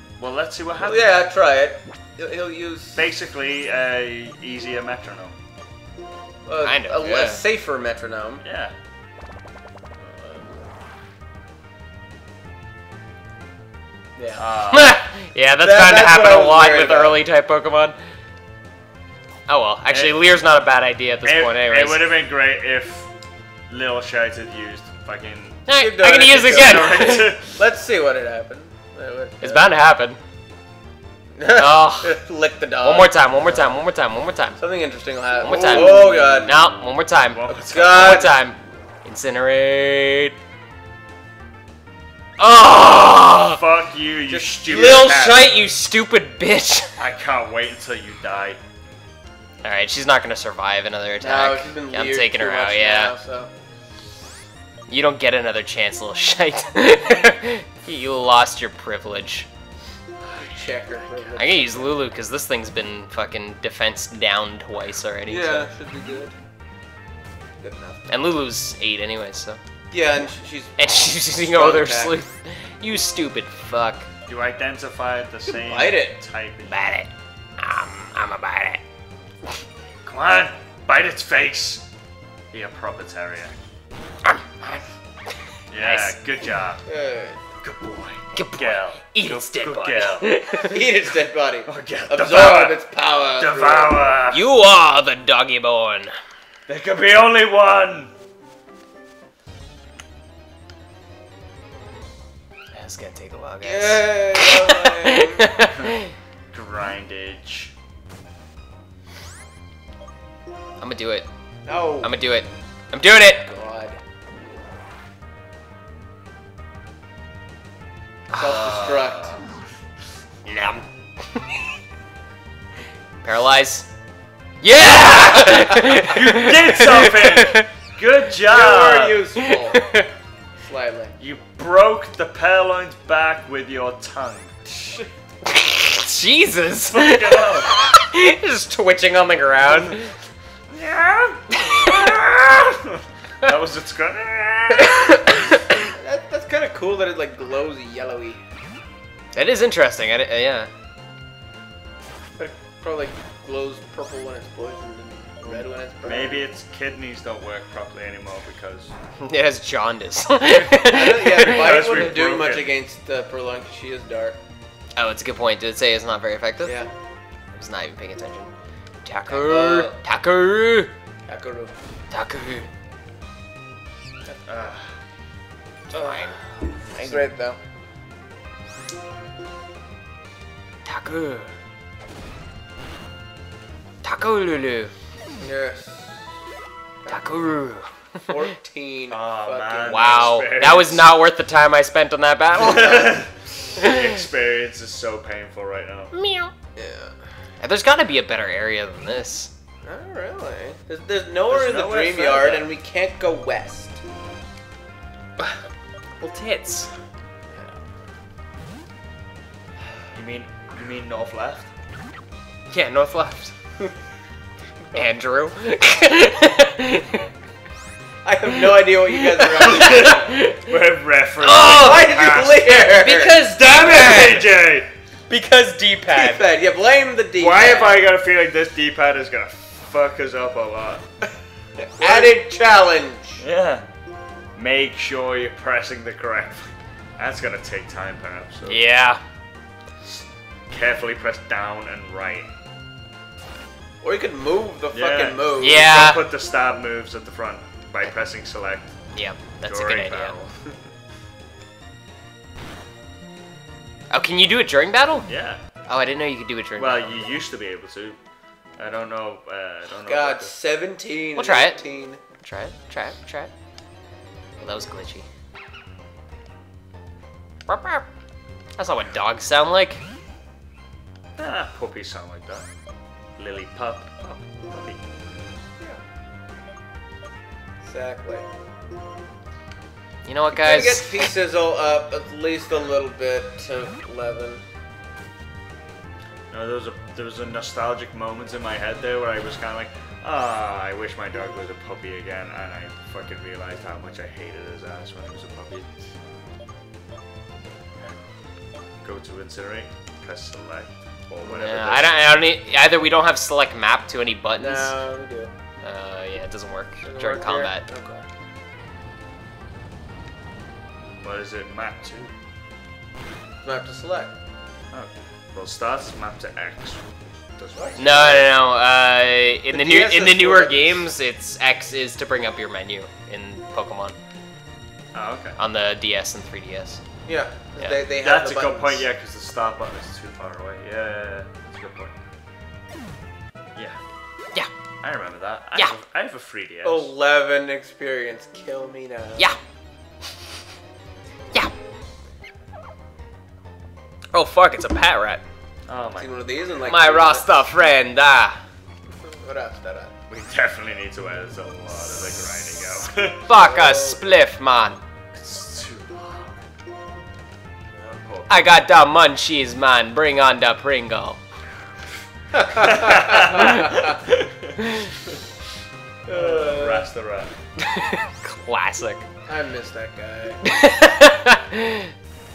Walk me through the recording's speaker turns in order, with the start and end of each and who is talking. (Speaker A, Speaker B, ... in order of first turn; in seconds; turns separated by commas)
Speaker A: 0.2-1.2, Speaker B: 0.8-3.0, Speaker A: 3.0-5.4, Speaker B: 6.5-8.4, Speaker C: 6.6-7.4, Speaker A: 8.4-8.8, Speaker A: 10.0-10.5, Speaker B: 14.2-14.4, Speaker A: 14.4-15.0, Speaker C: 14.7-18.0, Speaker B: 15.6-17.2, Speaker C: 19.5-22.1, Speaker A: 19.9-20.2, Speaker A: 21.2-23.1, Speaker A: 23.7-25.6, Speaker C: 25.7-27.3, Speaker B: 25.7-29.7, Speaker A: 26.4-27.6, Speaker C: 29.4-30.2, Speaker B: 31.4-33.1, Speaker C: 31.5-32.2, Speaker C: 32.8-34.6, Speaker B: 34.6-36.5, Speaker C: 35.4-40.4, Speaker A: 35.5-38.2, Speaker B: 37.5-38.4, Speaker C: 42.4-43.6, Speaker A: 43.4-45.5, Speaker B: 44.3-45.1, Speaker C: 44.7-47.0, Speaker A: 47.0-48.6, Speaker C: 49.6-53.1, Speaker B: 51.2-53.5, Speaker C: 54.9-59.5, Speaker B: 60.3-62.0, Speaker C: 61.4-65.7, Speaker B: 65.3-66.3, Speaker B: 67.6-68.1, Speaker C: 68.1-69.6, Speaker B: 69.9-72.2, Speaker C: 70.8-74.1, Speaker A: 74.3-76.8, Speaker B: 75.5-76.2, Speaker C: 76.7-78.8, Speaker A: 80.0-81.9, Speaker A: 82.5-83.5, Speaker C: 84.2-84.8, Speaker A: 85.7-86.8, Speaker C: 85.7-86.2, Speaker B: 86.9-87.4, Speaker A: 87.6-90.3, Speaker C: 88.3-90.9, Speaker B: 90.6-94.2, Speaker A: 91.7-94.4, Speaker C: 94.3-96.1, Speaker A: 96.7-98.1, Speaker C: 102.7-106.1, Speaker B: 103.6-105.5, Speaker A: 106.5-107.7, Speaker C: 110.8-111.3, Speaker B: 111.7-112.2, Speaker C: 112.0-113.5, Speaker B: 113.4-114.0, Speaker C: 118.3-118.6, Speaker B: 118.3-119.4, Speaker A: 118.4-119.6, Speaker C: 120.5-121.6, Speaker C: 123.2-123.9, Speaker C: 124.6-127.7, Speaker A: 125.8-129.2, Speaker B: 128.5-129.9, Speaker C: 129.4-130.1, Speaker B: 130.6-131.2, Speaker A: 131.2-134.5, Speaker B: 134.8-135.1, Speaker C: 135.4-140.1, Speaker A: 136.9-137.7, Speaker A: 140.7-145.4, Speaker C: 141.6-141.9, Speaker C: 144.8-145.7, Speaker B: 145.8-148.4, Speaker C: 149.3-150.7, Speaker B: 152.4-156.4, Speaker A: 155.4-158.9, Speaker C: 159.2-161.8, Speaker B: 160.7-164.4, Speaker A: 161.4-162.7, Speaker C: 165.0-166.8, Speaker B: 166.6-166.9, Speaker C: 167.5-168.5, Speaker C: 169.1-170.9, Speaker B: 169.3-169.9, Speaker B: 171.3-171.8, Speaker C: 172.1-172.7, Speaker A: 174.5-174.9, Speaker C: 175.9-176.4, Speaker B: 175.9-176.3, Speaker A: 176.9-177.3, Speaker B: 176.9-177.6, Speaker C: 180.8-181.5, Speaker C: 184.0-184.9, Speaker B: 185.4-186.2, Speaker B: 187.0-187.4, Speaker C: 187.1-188.3, Speaker B: 188.3-190.4, Speaker A: 189.1-191.1, Speaker C: 189.9-193.2, Speaker A: 192.6-196.1, Speaker C: 196.1-196.5, Speaker B: 196.8-197.2, Speaker C: 197.6-199.5, Speaker B: 199.8-204.0, Speaker A: 201.5-202.7, Speaker C: 206.2-206.9, Speaker A: 210.1-211.7, Speaker C: 212.7-213.6, Speaker C: 214.9-217.3, Speaker B: 218.2-220.2, Speaker C: 219.2-220.7, Speaker A: 219.6-222.8, Speaker C: 221.4-224.5, Speaker B: 221.7-223.4, Speaker A: 223.6-224.9, Speaker C: 225.3-226.4, Speaker B: 226.1-228.0, Speaker A: 227.4-231.0, Speaker B: 231.8-233.4, Speaker A: 232.0-232.3, Speaker A: 233.4-233.9, Speaker A: 234.6-238.8, Speaker C: 238.7-239.2, Speaker A: 240.7-242.5, Speaker B: 244.0-245.9, Speaker A: 244.9-248.9, Speaker C: 245.6-246.2, Speaker C: 249.1-250.4, Speaker A: 249.7-250.6, Speaker C: 254.1-255.3, Speaker A: 255.3-255.6, Speaker C: 255.9-257.1, Speaker A: 256.8-258.2, Speaker A: 258.8-260.5, Speaker B: 260.1-262.2, Speaker C: 261.4-261.8, Speaker C: 262.4-263.5, Speaker C: 264.6-265.3, Speaker C: 267.7-268.1, Speaker C: 268.8-270.0, Speaker A: 271.4-272.7, Speaker A: 273.4-275.1, Speaker B: 277.8-278.5, Speaker C: 280.3-281.3, Speaker B: 280.5-284.6, Speaker A: 286.5-295.9, Speaker A: 299.0-302.4, Speaker C: 301.4-305.0, Speaker B: 304.6-305.5, Speaker C: 305.8-307.8, Speaker B: 307.0-308.3, Speaker A: 311.2-312.3, Speaker B: 313.6-314.3, Speaker A: 314.9-318.5, Speaker B: 317.8-318.5, Speaker C: 318.0-324.2, Speaker B: 319.7-321.1, Speaker A: 325.1-325.6, Speaker C: 325.6-327.0, Speaker B: 327.3-329.1, Speaker A: 328.2-332.1, Speaker A: 335.0-337.1, Speaker B: 336.8-339.6, Speaker C: 344.3-345.4, Speaker A: 345.9-346.3, Speaker B: 346.2-347.5, Speaker C: 346.9-348.6, Speaker B: 349.2-350.1, Speaker A: 350.3-353.5, Speaker C: 353.4-355.0, Speaker B: 353.5-354.2, Speaker A: 355.3-356.6, Speaker A: 358.0-358.7, Speaker C: 358.5-361.4, Speaker B: 362.5-364.1, Speaker A: 362.7-365.4, Speaker C: 363.4-363.9, Speaker C: 364.8-365.1, Speaker B: 366.3-367.1, Speaker A: 366.3-367.5, Speaker C: 367.8-369.2, Speaker B: 369.5-370.6, Speaker C: 370.6-372.1